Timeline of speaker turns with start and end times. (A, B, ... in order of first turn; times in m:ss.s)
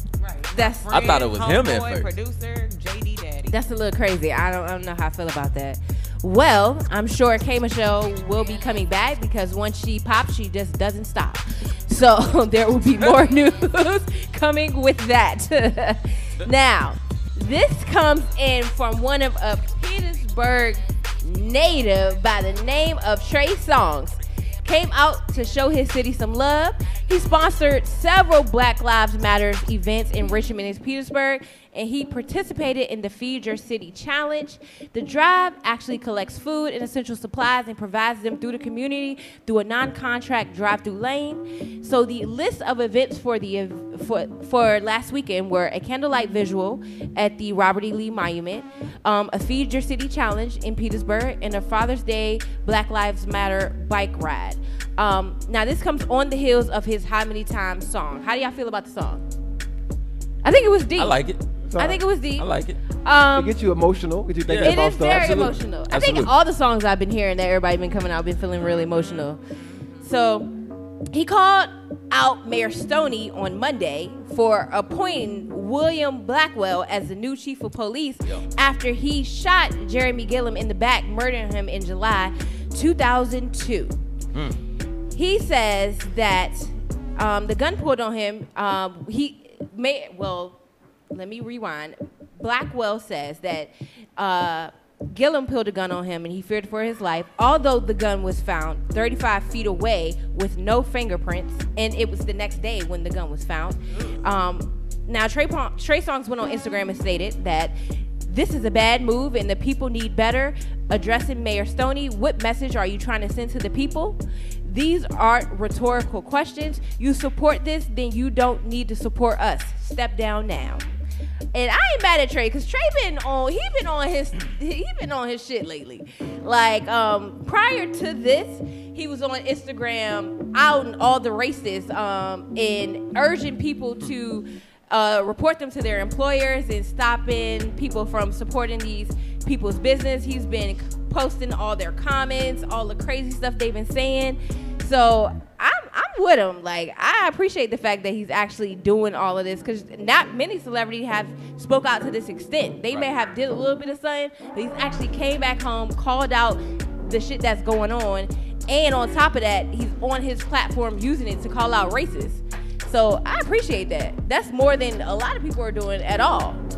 0:00.2-0:03.6 A
0:00.5-0:01.0 B
0:00.9-0:02.1 C
0:03.5-0:59.2 B
1:00.4-1:01.2 B
1:01.0-1:01.4 C
1:01.7-1:02.0 D
1:01.8-1:03.6 B
1:02.4-1:02.8 C
1:03.3-1:05.6 D
1:04.4-1:06.3 C
1:04.6-1:09.4 B
1:08.6-1:10.1 A
1:10.0-1:10.5 B
1:11.1-1:24.0 B
1:24.3-1:24.6 C
1:25.1-1:30.6 B
1:31.1-2:00.8 B
2:01.5-2:46.6 B